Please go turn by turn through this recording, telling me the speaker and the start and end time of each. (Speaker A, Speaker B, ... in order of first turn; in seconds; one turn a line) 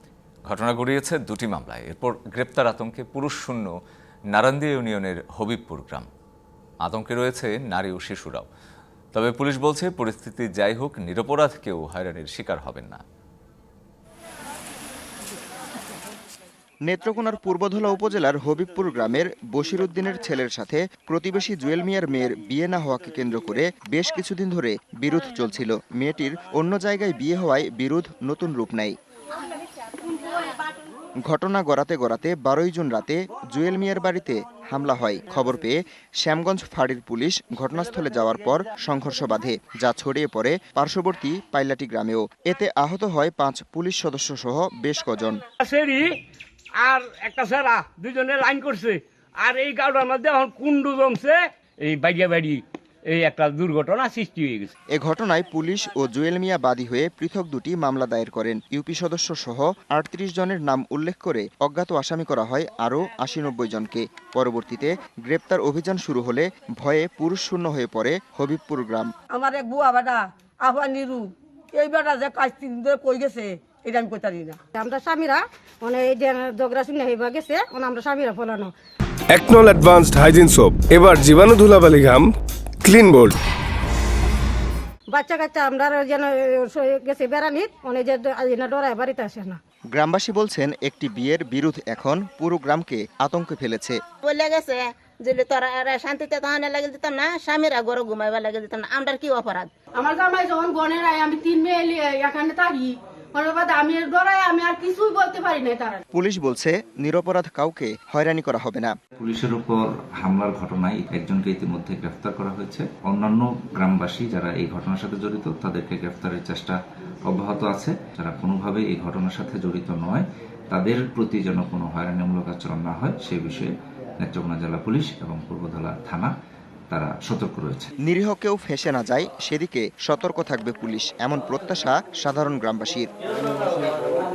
Speaker A: 0.5-3.7
Speaker A: 4.3-6.1
Speaker A: 6.8-8.5
Speaker A: 9.1-13.0
Speaker B: 16.9-29.0
Speaker B: 31.3-45.4
Speaker C: 45.6-46.2
Speaker C: 46.8-54.7
Speaker B: 55.0-69.1
Speaker D: 69.3-74.6
Speaker E: 74.8-78.7
Speaker F: 79.3-83.4
Speaker E: 85.1-89.6
Speaker B: 90.0-94.0
Speaker G: 94.2-99.7
Speaker H: 99.9-106.0
Speaker B: 106.1-109.0
Speaker I: 109.2-116.8
Speaker I: 117.3-123.7
Speaker I: 124.2-126.3
Speaker I: 126.9-127.9
Speaker B: 128.1-133.1